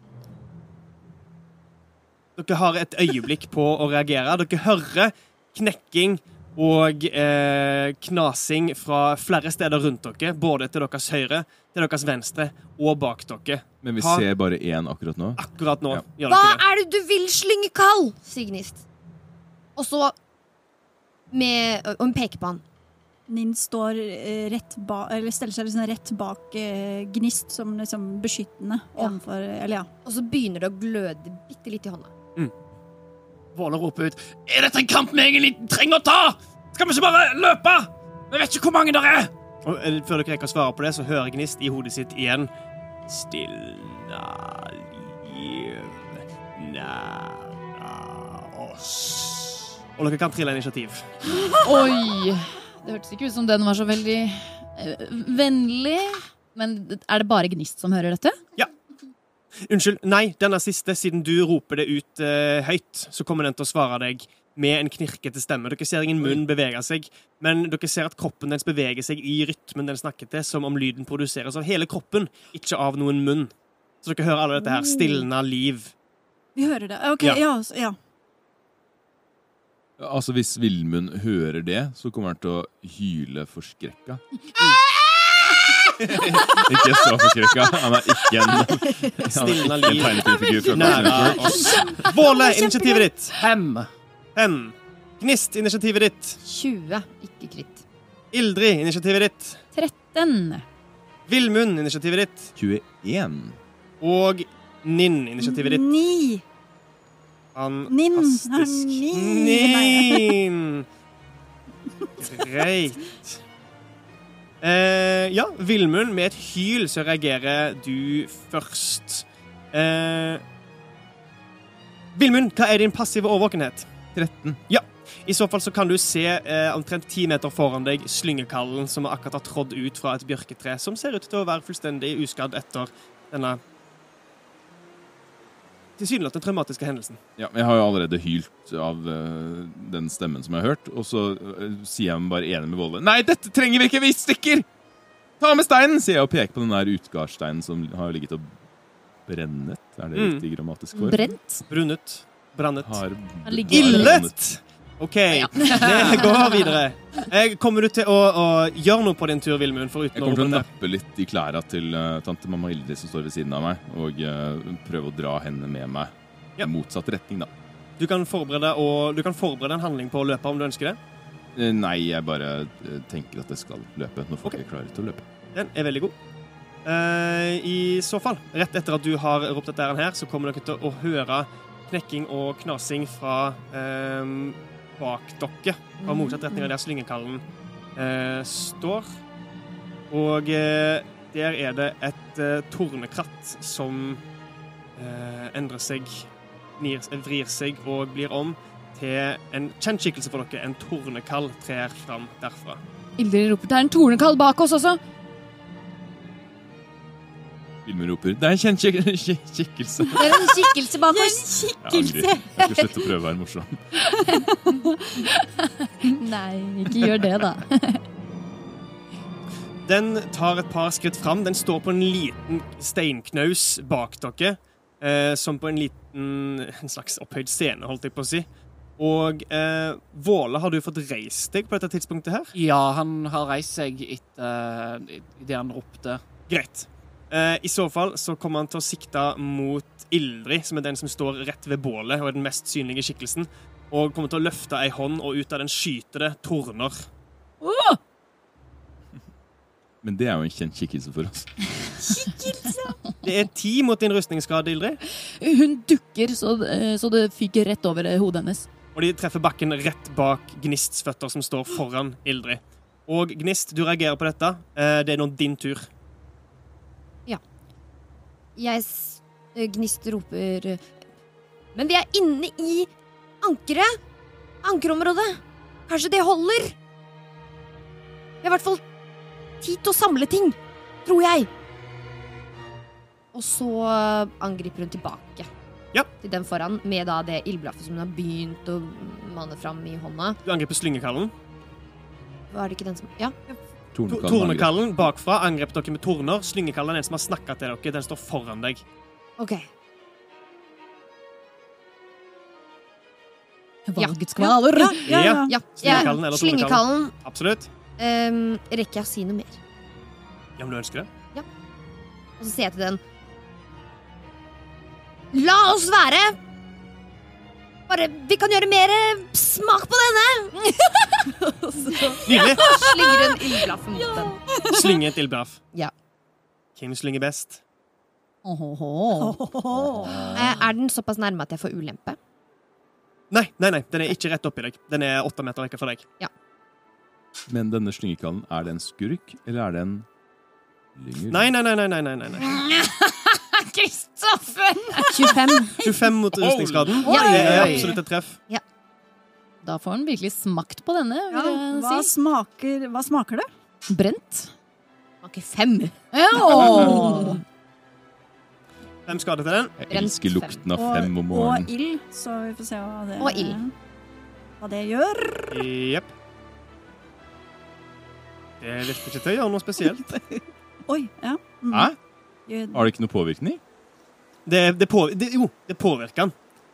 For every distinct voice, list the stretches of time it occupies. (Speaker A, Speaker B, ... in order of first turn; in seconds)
Speaker A: 2.4-14.3, 15.4-16.6, 39.6-42.5, 43.1-51.1, 59.7-73.5, 74.0-75.9, 89.3-93.3, 94.4-96.4, 98.3-99.6, 101.3-102.5, 104.0-105.8, 107.5-110.9, 112.2-113.4, 114.6-120.4, 122.2-123.9, 124.7-133.6, 136.0-137.2, 150.2-150.4, 151.7-153.0, 153.7-160.7, 168.0-171.0, 175.5-176.2, 176.8-187.4, 188.0-189.1, 190.1-194.2, 195.0-196.3, 196.8-202.8, 219.9-228.5, 229.0-232.5, 236.5-247.1, 253.2-255.0, 258.9-265.9, 290.4-291.3, 294.1-298.8, 305.1-307.7, 310.6-311.1, 322.3-322.7, 324.7-325.6, 326.8-327.6, 333.3-336.1, 341.3-342.5, 345.8-348.4, 359.1-359.8, 365.5-366.1, 368.6-370.1, 374.5-376.3
Speaker B: 13.8-16.0, 80.0-84.2, 86.1-91.9, 102.6-103.6, 124.2-124.6, 137.4-144.7, 145.4-148.5, 149.3-151.2, 152.8-154.3, 160.2-167.5, 171.6-175.2, 207.8-210.6, 211.8-213.8, 250.0-251.5, 293.9-294.8, 337.5-340.1, 341.0-341.5, 346.3-347.1, 359.8-361.7, 371.7-372.0, 372.7-373.6
Speaker C: 16.2-18.8, 19.8-20.2, 21.3-22.6, 30.1-32.1, 88.8-89.2, 90.3-90.8, 91.5-93.1, 96.4-97.8, 186.0-186.7, 268.6-270.9, 271.8-274.0, 274.6-276.8, 278.4-278.8, 279.6-281.5, 283.3-285.5, 286.2-290.4, 292.5-293.4, 299.4-299.7, 304.0-304.5, 305.5-307.1, 308.0-309.6, 312.4-313.0, 315.3-316.4, 317.9-320.7, 321.8-324.4, 330.3-332.2, 345.1-345.8, 347.1-348.0, 355.2-357.4, 359.9-360.6, 363.2-363.6
Speaker D: 23.3-29.9, 76.5-78.0, 105.4-106.4, 107.9-110.3, 211.1-212.7, 214.3-215.2, 216.8-217.6, 304.6-306.1, 322.0-323.5, 324.6-325.0, 329.2-330.4, 347.1-347.8, 351.3-353.5, 356.5-357.3, 360.8-363.7, 364.6-365.5, 369.9-371.9, 372.5-372.9
Speaker E: 33.5-39.3, 91.0-91.2, 93.4-93.9, 232.5-236.2
Speaker F: 51.6-58.4, 99.7-100.7, 151.0-151.6, 153.5-154.2, 155.4-156.5, 203.2-205.0, 210.2-211.5, 214.0-217.7, 247.6-248.0, 252.1-252.7, 255.4-258.7, 303.9-305.1, 328.4-329.4, 342.4-345.8, 347.2-347.8, 349.6-352.1, 353.9-354.5, 356.1-357.4